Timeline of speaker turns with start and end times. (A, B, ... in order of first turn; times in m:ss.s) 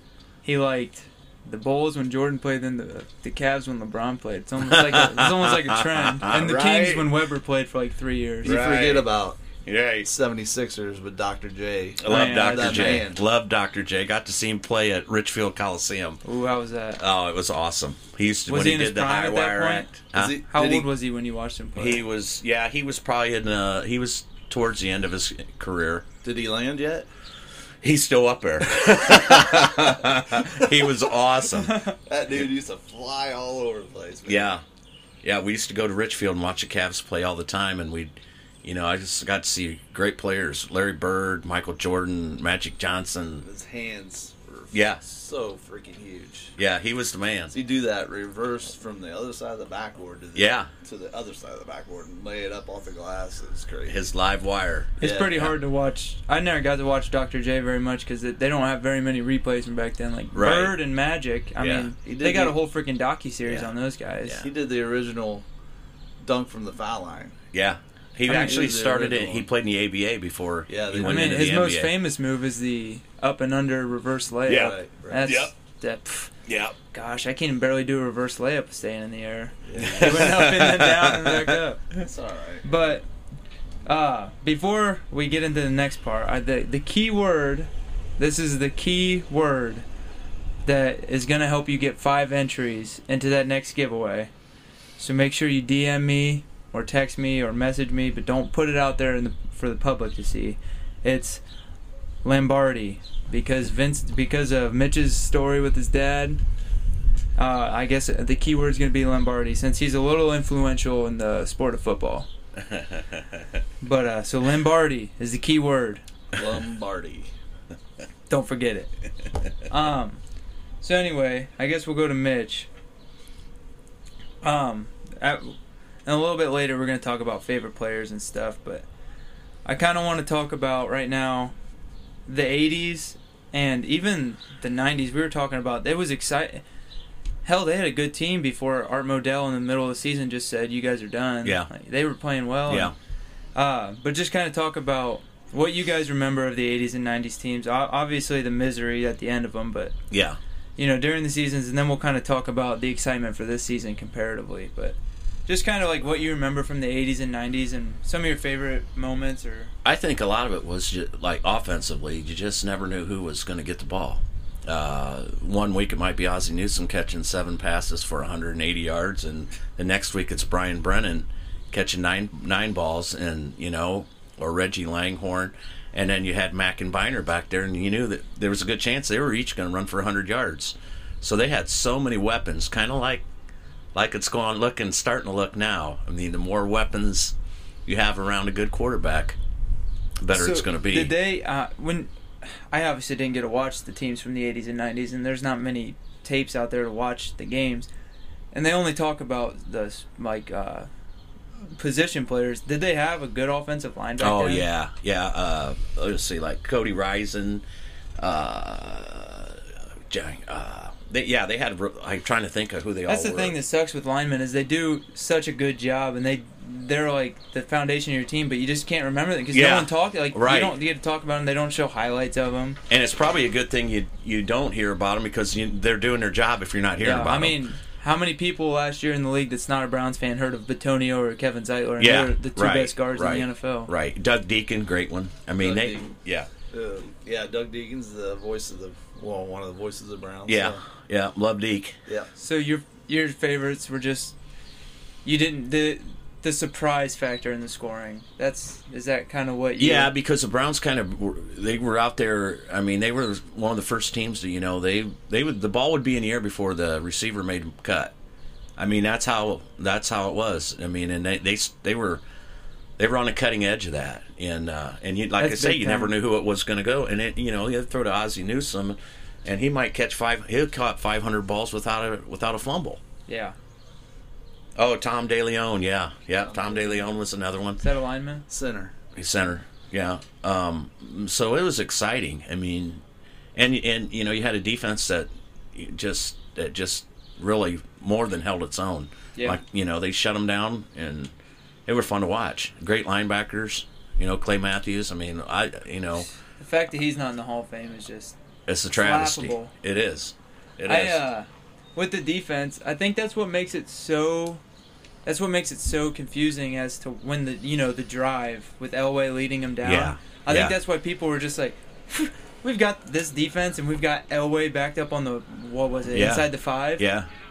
0:00.4-0:08.8 A
0:04.6-0:07.1 B
0:08.4-0:09.4 C
0:08.4-0:09.0 B
0:09.6-0:10.1 B
0:10.0-0:13.2 C
0:12.0-0:16.2 B
0:12.0-0:13.0 A
0:16.2-0:17.0 A
0:17.0-0:20.4 B
0:18.5-0:19.9 A
0:20.1-0:20.9 C
0:20.5-0:22.0 A
0:21.8-0:26.0 B
0:26.2-0:27.1 C
0:27.8-0:31.8 B
0:29.1-0:29.7 C
0:31.6-0:32.0 A
0:32.1-0:34.5 C
0:34.3-0:34.6 B
0:35.2-0:38.1 B
0:38.6-0:43.4 B
0:43.4-0:46.6 C
0:44.7-0:45.0 B
0:46.6-0:47.5 B
0:47.5-0:54.0 C
0:50.3-0:50.7 B
0:53.8-0:55.5 B
0:55.0-0:55.3 C
0:55.0-1:04.4 A
1:00.3-1:00.8 B
1:01.6-1:02.3 B
1:02.0-1:02.5 C
1:04.4-1:05.4 C
1:06.2-1:07.4 C
1:07.5-1:12.0 B
1:08.3-1:08.6 A
1:08.3-1:09.4 C
1:10.7-1:11.4 C
1:11.0-1:16.3 A
1:14.4-1:15.5 B
1:14.5-1:15.4 C
1:16.4-1:16.7 B
1:16.9-1:22.0 A
1:19.6-1:20.3 C
1:19.8-1:21.6 B
1:22.0-1:22.9 C
1:22.6-1:23.0 A
1:23.8-1:29.8 A
1:30.6-1:34.3 A
1:35.0-1:41.4 A
1:42.2-1:46.4 A
1:47.4-1:52.3 A
1:52.7-1:53.6 B
1:53.8-1:56.0 A
1:56.3-1:57.3 C
1:58.3-1:58.9 A
1:59.6-2:00.2 A
2:00.8-2:02.7 A
2:04.4-2:08.8 A
2:09.6-2:11.5 A
2:12.3-2:16.6 A
2:17.4-2:22.9 A
2:22.7-2:22.9 B
2:23.5-2:29.9 A
2:30.1-2:30.4 B
2:30.8-2:39.7 A
2:39.8-3:03.2 B
3:03.9-3:07.3 B
3:07.8-3:09.4 B
3:10.2-3:11.1 B
3:10.3-3:17.9 A
3:18.5-3:20.9 A
3:21.7-3:24.7 A
3:24.2-3:27.6 B
3:28.2-3:33.6 B
3:33.1-3:42.8 A
3:39.5-3:40.8 B
3:42.9-3:47.6 B
3:47.0-3:53.9 A
3:52.0-3:56.5 B
3:55.6-3:56.1 C
3:56.7-4:00.8 C
4:00.5-4:02.0 B
4:02.4-4:04.3 A
4:05.2-4:10.1 A
4:09.8-4:18.1 B
4:18.8-4:22.2 B
4:23.0-4:33.0 B
4:25.4-4:26.1 A
4:33.3-4:33.6 A
4:34.8-4:37.8 B
4:36.5-4:37.0 C
4:37.8-4:38.4 A
4:38.5-4:39.0 C
4:39.1-4:43.0 B
4:43.5-4:51.3 B
4:49.3-4:49.6 A
4:51.8-4:56.3 B
4:56.6-4:58.4 A
4:58.7-5:01.3 B
4:58.9-4:59.7 A
5:00.8-5:04.6 A
5:05.2-5:17.0 A
5:09.8-5:10.7 B
5:16.1-5:17.3 B